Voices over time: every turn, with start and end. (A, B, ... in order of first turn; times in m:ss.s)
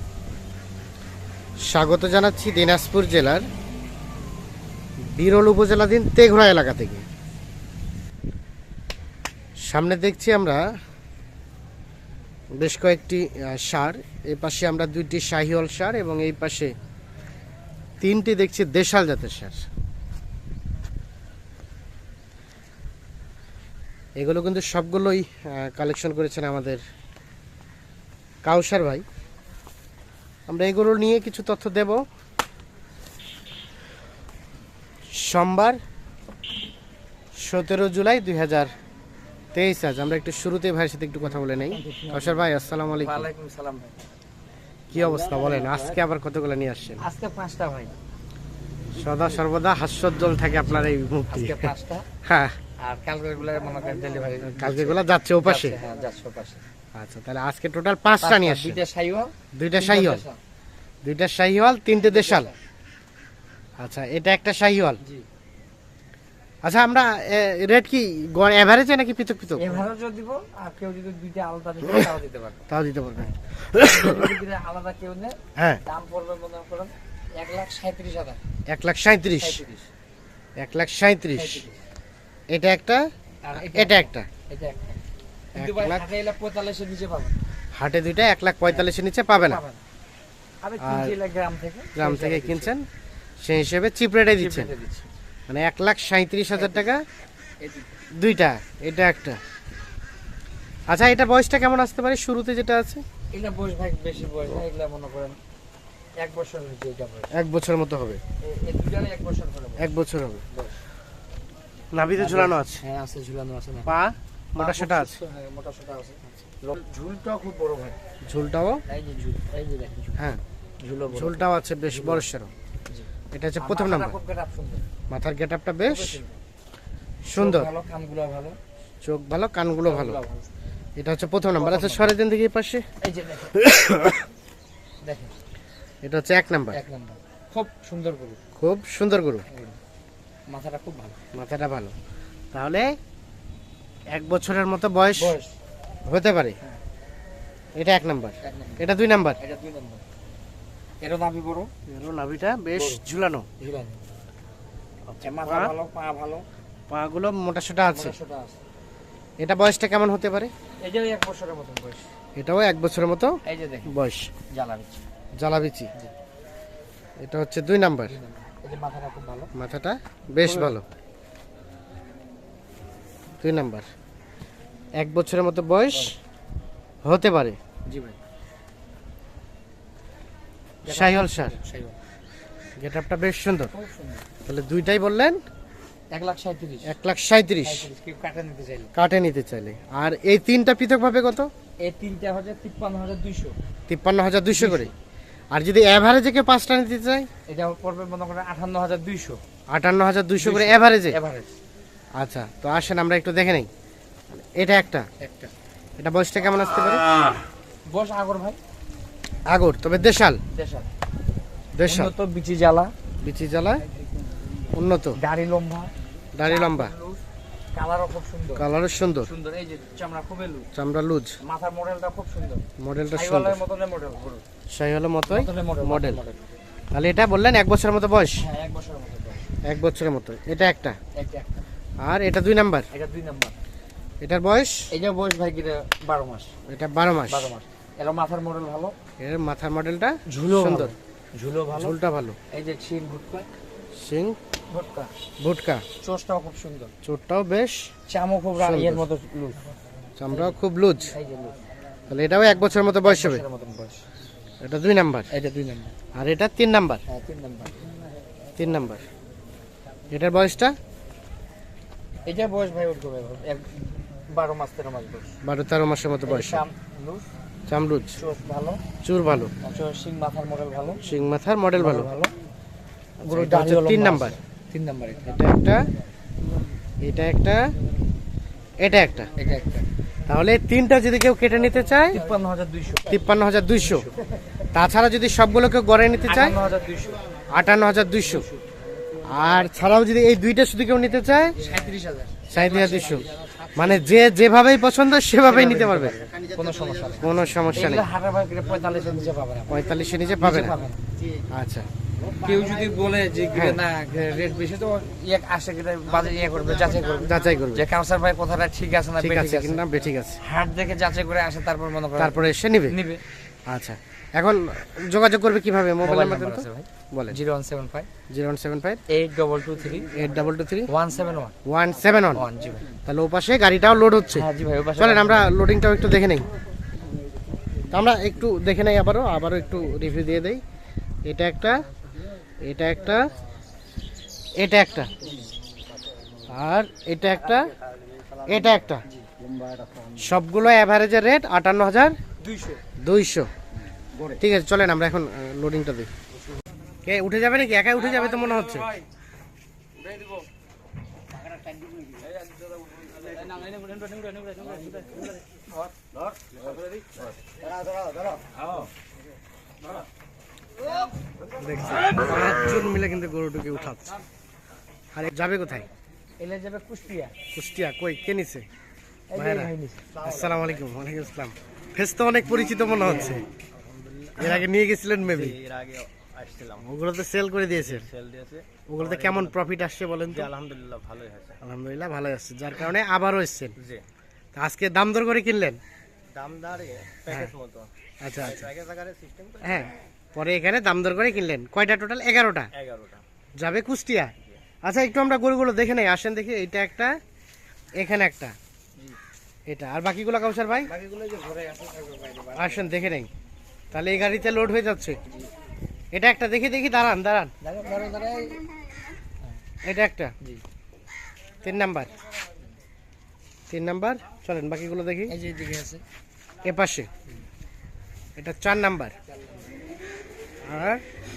0:01.6-0:03.4 A
0:05.0-0:07.0 A
0:09.6-0:10.6 A
0:12.5-0:16.7 A
0:18.0-0:19.6 A
0:24.2-0:26.8 A
0:28.4-0:29.0 A
0:30.5-0:32.0 A
0:35.1-0:35.8 A
0:37.4-0:38.7 A
0:39.5-0:43.3 A
0:41.8-0:42.4 B
0:43.0-0:44.0 B
0:44.9-0:47.0 A
0:45.3-0:45.6 B
0:47.0-0:47.9 B
0:48.9-0:51.7 A
0:50.7-0:52.0 B
0:52.2-0:52.6 A
0:52.8-0:56.6 B
0:54.5-0:55.8 A
0:56.9-0:58.8 A
0:58.2-1:00.4 B
0:59.5-1:00.2 A
1:01.0-1:02.5 A
1:02.0-1:02.6 B
1:03.8-1:05.0 A
1:06.6-1:09.8 A
1:09.6-1:12.6 B
1:12.7-1:14.3 A
1:13.8-1:18.4 B
1:18.7-1:19.6 A
1:19.4-1:19.9 B
1:20.6-1:21.6 A
1:21.3-1:21.8 B
1:22.5-1:23.0 A
1:23.4-1:27.4 B
1:23.6-1:24.3 A
1:25.5-1:26.0 A
1:27.7-1:29.6 A
1:28.7-1:29.8 B
1:30.6-1:32.7 B
1:30.8-1:31.2 A
1:32.0-1:32.8 A
1:33.4-1:34.7 A
1:34.3-1:35.1 B
1:35.5-1:37.0 A
1:36.5-1:36.8 B
1:37.6-1:38.0 B
1:38.2-1:39.4 A
1:40.9-1:43.0 A
1:43.3-1:45.4 B
1:46.2-1:47.3 B
1:47.3-1:48.2 A
1:48.4-1:49.9 B
1:49.8-1:50.4 A
1:50.5-1:50.8 B
1:51.9-1:52.8 A
1:52.2-1:54.0 B
1:53.8-1:55.2 A
1:54.6-1:58.0 B
1:58.3-1:58.8 A
1:58.9-2:00.2 B
2:00.8-2:02.2 B
2:01.1-2:02.5 A
2:02.9-2:04.8 B
2:03.3-2:04.1 A
2:05.1-2:06.2 A
2:05.8-2:06.4 B
2:07.2-2:07.7 A
2:07.3-2:08.6 B
2:09.0-2:10.2 A
2:09.8-2:10.5 B
2:11.0-2:12.8 A
2:11.6-2:12.1 B
2:13.0-2:13.6 B
2:13.6-2:14.2 A
2:15.0-2:15.3 B
2:16.0-2:16.8 A
2:16.7-2:18.4 B
2:18.6-2:19.4 A
2:19.5-2:19.8 B
2:20.5-2:21.2 B
2:21.3-2:21.9 A
2:22.5-2:22.9 A
2:24.1-2:25.3 A
2:25.2-2:25.5 B
2:26.1-2:26.6 A
2:27.8-2:29.4 A
2:28.4-2:30.0 B
2:31.0-2:31.7 B
2:31.9-2:33.4 A
2:32.7-2:33.0 B
2:33.6-2:34.0 B
2:35.1-2:35.7 A
2:35.2-2:36.4 B
2:36.9-2:38.2 A
2:37.9-2:38.6 B
2:39.4-2:40.5 A
2:40.8-2:42.1 B
2:42.4-2:43.4 A
2:43.4-2:44.0 B
2:43.9-2:44.3 A
2:44.5-2:45.0 B
2:45.4-2:45.9 A
2:47.2-2:48.1 A
2:48.1-2:49.5 B
2:49.5-2:50.8 A
2:50.4-2:50.7 B
2:53.4-2:53.8 A
2:55.0-2:56.1 A
2:57.0-2:57.6 A
2:57.9-2:58.2 B
3:00.8-3:02.0 B
3:00.9-3:01.5 A
3:02.8-3:03.7 A
3:03.7-3:04.2 B
3:04.4-3:05.4 A
3:06.1-3:06.9 B
3:06.8-3:07.9 A
3:07.6-3:08.9 B
3:08.9-3:11.5 A
3:11.8-3:13.6 B
3:13.9-3:14.9 A
3:14.5-3:14.9 B
3:15.5-3:17.3 A
3:17.5-3:19.4 B
3:19.7-3:21.2 A
3:20.4-3:21.5 B
3:22.2-3:23.7 A
3:24.3-3:25.0 A
3:25.2-3:25.5 B
3:26.0-3:27.1 A
3:27.9-3:28.6 B
3:29.5-3:30.4 A
3:30.5-3:30.9 B
3:31.8-3:32.1 A
3:31.8-3:32.9 B
3:33.2-3:33.8 A
3:34.7-3:35.2 A
3:35.2-3:37.2 B
3:36.3-3:36.9 A
3:37.7-3:38.7 B
3:38.6-3:39.3 A
3:39.2-3:40.7 B
3:40.7-3:41.4 A
3:41.4-3:44.4 B
3:42.8-3:43.6 A
3:44.7-3:46.2 A
3:45.3-3:46.5 B
3:46.9-3:48.4 A
3:48.4-3:49.4 B
3:49.6-3:51.0 A
3:51.1-3:51.6 B
3:52.0-3:52.9 A
3:52.9-3:53.6 B
3:54.2-3:54.9 A
3:54.9-3:56.5 B
3:56.7-3:57.5 A
3:57.3-3:59.0 B
3:59.2-4:00.9 A
4:00.3-4:01.9 B
4:01.7-4:02.4 A
4:02.5-4:03.5 B
4:04.0-4:04.4 A
4:04.7-4:05.1 B
4:05.4-4:05.8 A
4:06.0-4:06.9 B
4:07.0-4:07.9 A
4:08.1-4:09.7 B
4:08.6-4:09.0 A
4:10.2-4:11.1 A
4:10.3-4:11.6 B
4:12.1-4:13.4 A
4:13.0-4:14.0 B
4:14.6-4:15.3 A
4:15.3-4:15.9 B
4:16.1-4:17.0 A
4:17.1-4:17.9 B
4:18.6-4:19.1 A
4:20.1-4:20.8 A
4:22.2-4:25.3 B
4:25.4-4:26.6 A
4:26.2-4:27.2 B
4:27.7-4:28.2 A
4:28.1-4:28.8 B
4:29.0-4:29.5 A
4:29.6-4:31.0 B
4:31.0-4:32.1 A
4:31.8-4:32.3 B
4:33.2-4:35.2 B
4:33.3-4:34.4 A
4:35.2-4:35.9 A
4:37.0-4:37.7 A
4:38.8-4:39.3 A
4:39.4-4:39.9 B
4:40.3-4:42.2 A
4:42.1-4:43.1 B
4:43.1-4:44.1 A
4:43.8-4:44.1 B
4:44.7-4:46.6 A
4:46.2-4:47.3 B
4:47.5-4:48.5 A
4:48.3-4:48.6 B
4:49.2-4:51.6 A
4:51.6-4:53.8 B
4:52.5-4:56.2 A
4:55.4-4:59.8 B
4:57.2-4:58.1 A
4:59.7-5:00.8 A
5:00.4-5:01.0 B
5:01.5-5:01.9 A
5:02.4-5:09.8 B
5:03.5-5:03.8 A
5:06.1-5:07.4 C
5:07.2-5:07.9 A
5:09.2-5:10.4 A
5:10.4-5:13.2 B
5:12.2-5:13.0 A
5:13.7-5:17.4 A
5:16.0-5:18.1 B
5:18.3-5:19.0 A
5:19.1-5:20.1 B
5:20.1-5:20.9 A
5:20.9-5:21.5 B
5:21.6-5:22.5 A
5:22.3-5:22.9 B
5:23.0-5:26.4 A
5:24.3-5:25.5 B
5:27.9-5:30.6 A
5:31.2-5:31.9 A
5:32.6-5:33.3 A
5:34.6-5:35.1 A
5:36.5-5:37.7 A
5:38.4-5:39.0 A
5:40.2-5:42.1 A
5:42.4-5:42.8 B
5:43.0-5:43.5 A
5:44.4-5:46.1 A
5:47.0-5:48.9 A
6:01.6-6:04.1 A
6:05.1-6:05.9 A
6:06.4-6:07.3 B
6:07.5-6:08.6 A
6:09.3-6:10.2 B
6:09.3-6:09.7 A
6:10.1-6:10.8 C
6:10.2-6:13.4 A
6:13.8-6:14.6 C
6:14.4-6:15.6 A
6:15.2-6:16.8 C
6:16.8-6:18.1 A
6:17.7-6:19.6 C
6:18.9-6:20.5 A
6:20.3-6:21.6 C
6:21.6-6:23.7 A
6:23.8-6:24.0 C
6:24.5-6:25.8 A
6:26.3-6:29.9 C
6:28.2-6:28.7 A
6:29.6-6:32.7 A
6:32.7-6:33.2 C
6:33.6-6:37.2 A
6:38.0-6:38.5 A
6:39.7-6:40.9 A
6:40.9-6:42.9 B
6:42.6-6:43.3 A
6:43.9-6:45.2 A
6:46.1-6:47.5 A
6:47.6-6:48.6 B
6:49.8-6:50.3 A
6:51.6-6:52.1 A
6:53.7-6:55.3 A
6:55.3-6:56.0 B
6:56.6-6:57.1 A
6:58.4-6:59.1 A
6:59.3-6:59.6 B
7:00.6-7:01.0 A